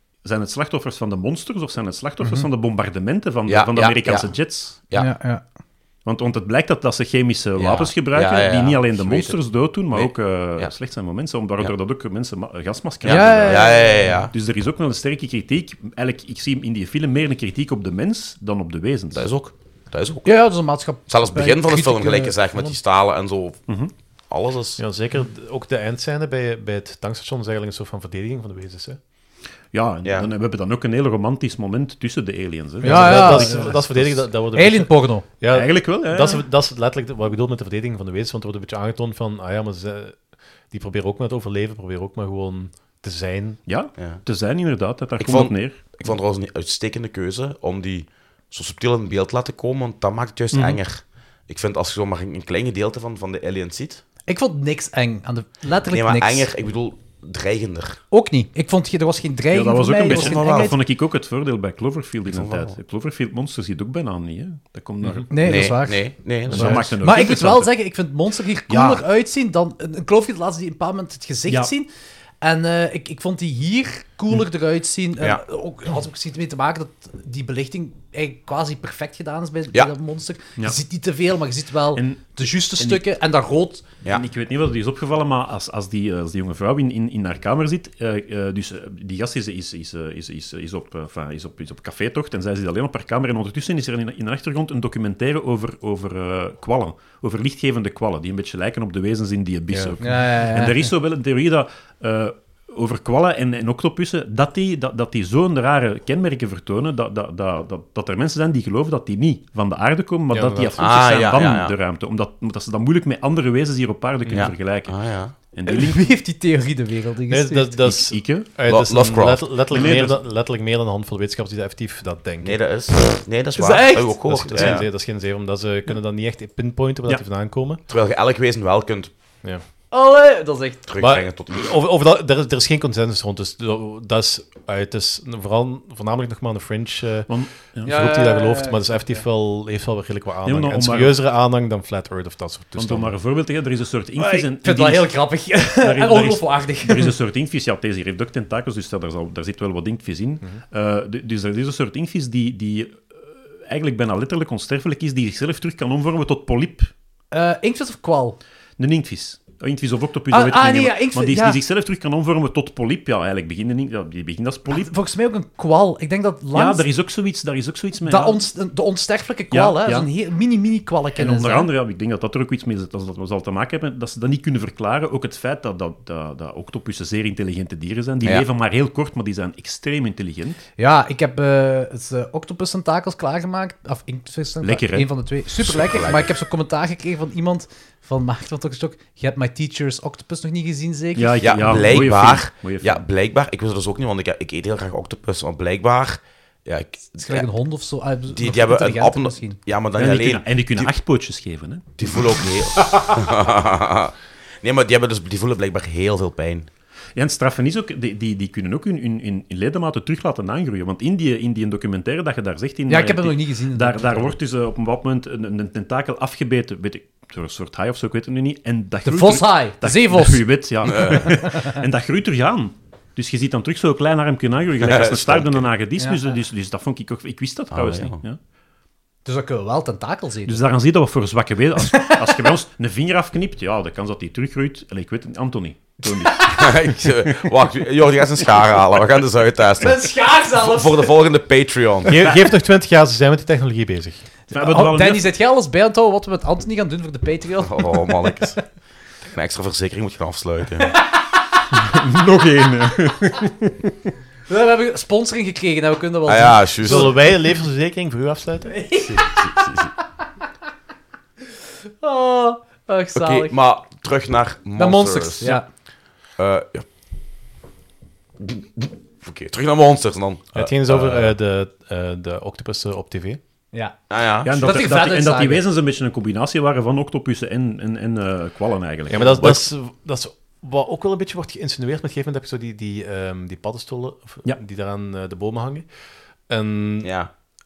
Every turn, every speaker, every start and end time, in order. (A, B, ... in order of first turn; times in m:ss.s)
0:00.2-0:04.8 A
0:02.2-0:02.5 B
0:03.5-0:05.1 C
0:04.9-0:05.4 B
0:06.0-0:19.2 A
0:07.6-0:09.4 C
0:09.9-0:10.7 C
0:13.0-0:14.3 C
0:13.1-0:14.2 B
0:19.1-0:20.3 C
0:20.2-0:22.7 B
0:21.1-0:23.7 C
0:24.3-0:24.8 C
0:24.8-0:29.0 D
0:29.7-0:34.2 A
0:32.8-0:33.8 B
0:32.8-0:40.2 D
0:34.5-0:35.2 B
0:35.5-0:36.4 A
0:40.7-0:43.6 D
0:43.6-0:45.8 A
0:44.0-0:44.2 C
0:45.2-0:54.0 C
0:50.5-0:50.8 A
0:54.3-0:56.5 B
0:55.9-0:58.0 C
0:58.1-1:00.8 B
0:59.5-1:05.7 A
1:00.1-1:00.7 C
1:02.3-1:02.7 C
1:05.3-1:11.9 B
1:05.4-1:07.0 C
1:06.5-1:07.7 A
1:06.5-1:06.8 D
1:08.7-1:09.0 A
1:12.4-1:23.8 B
1:21.9-1:23.0 A
1:24.1-1:56.1 A
1:39.7-1:40.0 D
1:40.0-1:40.9 B
1:50.3-1:50.8 D
1:50.8-1:51.7 C
1:54.2-1:54.5 D
1:54.3-1:55.3 C
1:55.7-1:57.9 B
1:57.3-2:02.6 D
1:57.8-1:58.5 A
1:58.6-1:59.4 C
1:59.7-2:00.2 A
2:02.4-2:04.8 C
2:03.6-2:04.2 B
2:04.3-2:07.8 D
2:04.6-2:04.8 A
2:07.9-2:09.1 C
2:09.9-2:10.8 B
2:10.9-2:11.7 C
2:11.0-2:23.1 D
2:17.3-2:17.9 A
2:17.8-2:19.2 B
2:20.4-2:21.2 A
2:22.8-2:36.9 A
2:24.2-2:27.1 B
2:37.3-2:38.4 B
2:38.8-2:44.9 A
2:40.3-2:41.6 B
2:44.7-2:46.9 B
2:46.5-2:48.4 A
2:48.0-2:51.7 B
2:49.5-2:50.1 A
2:51.2-3:00.6 A
3:00.8-3:11.5 B
3:04.6-3:05.1 A
3:05.6-3:06.3 C
3:11.2-3:13.0 A
3:11.4-3:17.5 C
3:17.2-3:19.6 B
3:18.3-3:20.9 C
3:19.9-3:22.2 A
3:22.0-3:26.7 C
3:22.8-3:23.1 A
3:27.2-3:48.4 A
3:32.9-3:34.3 B
3:39.0-3:41.8 B
3:40.8-3:41.3 C
3:44.8-3:45.6 C
3:47.7-3:48.2 C
3:49.2-3:50.6 B
3:50.4-3:56.8 A
3:52.0-3:52.3 B
3:56.2-3:56.5 B
3:56.5-4:02.3 C
3:59.8-4:01.1 B
4:02.0-4:04.2 D
4:04.5-4:08.4 B
4:04.5-4:05.3 A
4:07.6-4:08.6 C
4:09.2-4:11.0 C
4:10.9-4:11.6 B
4:11.7-4:13.9 A
4:14.5-4:17.3 B
4:16.2-4:17.2 C
4:16.8-4:18.8 D
4:18.7-4:19.7 B
4:19.0-4:19.9 C
4:22.0-4:23.6 B
4:23.1-4:25.6 C
4:24.8-4:25.7 B
4:26.4-4:26.9 C
4:28.4-4:31.3 C
4:30.5-4:33.4 D
4:33.7-4:35.6 B
4:34.1-4:34.5 C
4:34.4-4:39.6 A
4:39.1-4:45.8 D
4:46.5-4:47.1 D
4:47.0-4:47.3 C